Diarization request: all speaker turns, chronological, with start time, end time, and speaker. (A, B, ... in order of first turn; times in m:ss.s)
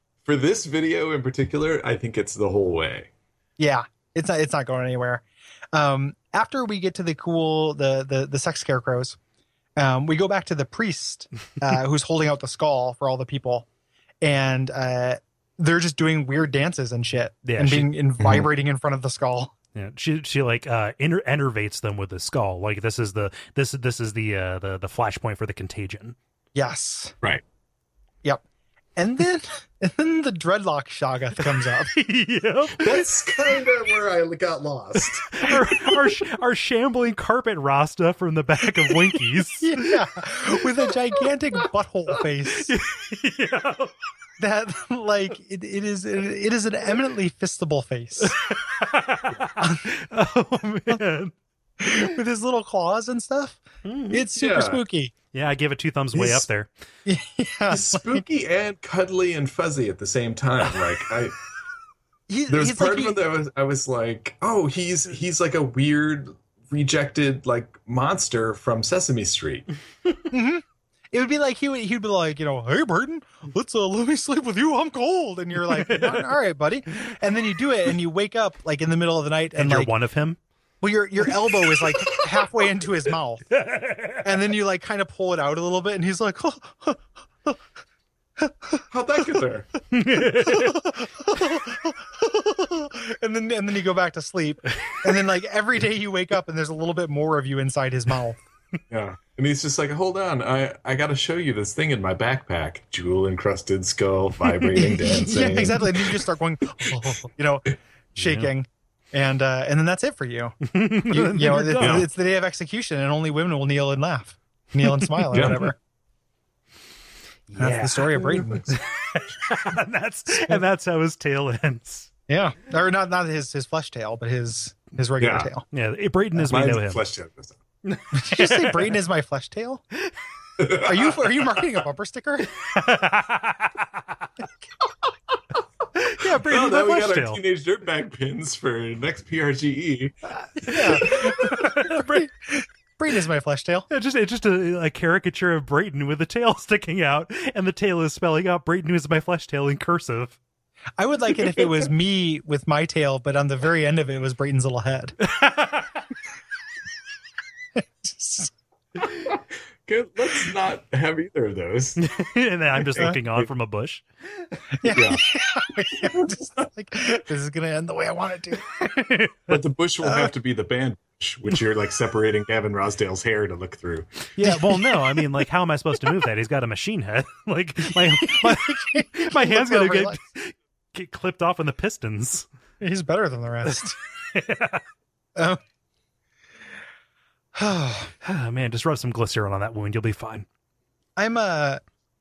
0:00.2-0:03.1 A
0:03.6-0:09.2 B
0:09.8-0:13.6 B
0:14.2-0:19.5 B
0:17.4-0:17.9 C
0:18.2-0:18.5 A
0:19.7-0:26.2 C
0:26.5-0:27.1 B
0:29.0-0:31.9 B
0:31.6-0:33.0 C
0:32.8-0:35.4 A
0:35.0-0:39.9 C
0:39.6-0:42.7 B
0:42.6-0:43.9 C
0:44.4-0:48.4 B
0:48.2-0:51.3 C
0:49.6-0:49.8 B
0:51.8-0:55.1 B
0:53.8-0:54.2 C
0:54.3-0:54.8 A
0:55.3-0:56.7 C
0:57.0-0:58.2 B
0:57.7-1:01.4 A
1:02.3-1:03.2 B
1:02.5-1:09.7 A
1:10.3-1:19.9 B
1:15.8-1:16.2 C
1:19.5-1:20.4 C
1:20.8-1:23.5 B
1:21.7-1:22.2 C
1:23.5-1:24.2 C
1:24.2-1:27.6 B
1:28.4-1:28.8 B
1:28.9-1:29.7 A
1:29.9-1:30.8 C
1:30.4-1:38.4 B
1:38.9-1:46.1 A
1:44.8-1:50.6 B
1:48.2-1:48.5 C
1:50.6-1:52.1 C
1:51.1-1:55.8 B
1:51.8-1:52.1 A
1:54.9-1:55.5 C
1:55.3-1:55.7 A
1:57.5-2:02.1 C
1:57.6-1:58.8 B
2:00.3-2:00.6 B
2:02.3-2:05.7 B
2:05.2-2:05.5 A
2:05.7-2:07.0 C
2:06.4-2:07.6 A
2:07.8-2:08.9 C
2:08.1-2:09.8 B
2:10.6-2:11.1 A
2:10.7-2:12.5 B
2:12.6-2:14.0 C
2:15.9-2:17.4 C
2:16.3-2:21.3 A
2:20.6-2:23.9 B
2:20.7-2:22.2 C
2:23.9-2:30.4 C
2:31.0-2:35.2 B
2:35.2-2:36.0 C
2:37.8-2:38.5 B
2:39.2-2:42.0 A
2:42.0-2:44.0 C
2:42.9-2:43.5 A
2:44.8-2:49.1 B
2:44.9-2:45.2 A
2:46.0-2:46.7 A
2:49.5-2:54.1 A
2:50.0-2:50.3 B
2:54.4-3:02.4 C
2:54.4-2:55.2 B
2:58.0-3:00.2 B
3:02.8-3:04.0 B
3:04.3-3:04.8 C
3:07.5-3:08.1 B
3:08.2-3:10.4 C
3:11.2-3:11.8 B